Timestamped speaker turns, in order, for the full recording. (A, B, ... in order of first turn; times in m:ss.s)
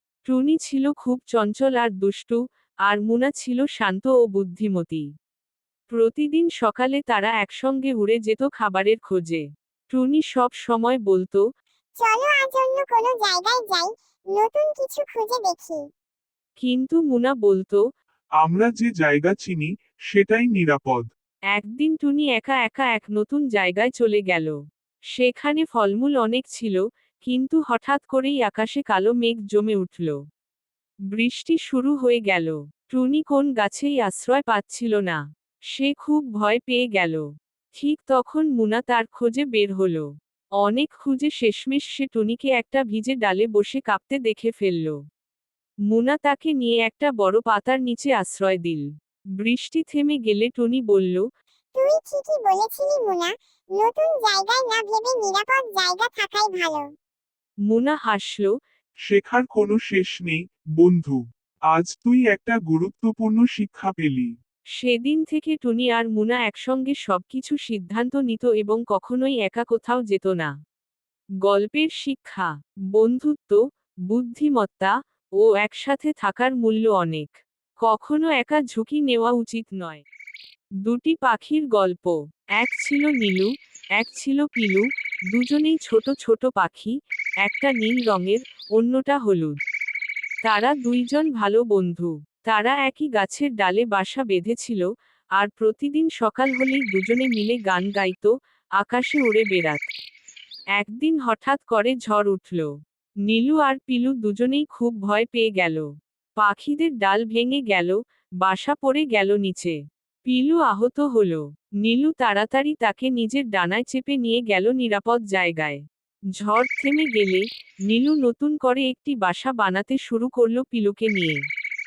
0:00.3-0:05.1 A
0:05.9-0:11.4 A
0:12.0-0:15.8 B
0:16.6-0:17.8 A
0:18.4-0:21.1 C
0:21.5-0:24.6 A
0:25.1-0:30.2 A
0:31.1-0:35.2 A
0:35.7-0:40.1 A
0:40.6-0:45.0 A
0:45.9-0:48.9 A
0:49.4-0:51.2 A
0:51.7-0:56.9 B
0:57.7-0:58.5 A
0:59.1-1:04.3 C
1:04.8-1:10.5 A
1:11.4-1:20.0 A
1:20.8-1:29.6 A
1:30.4-1:39.9 A
1:40.8-1:42.7 A
1:43.3-1:55.8 A
1:56.4-2:01.4 A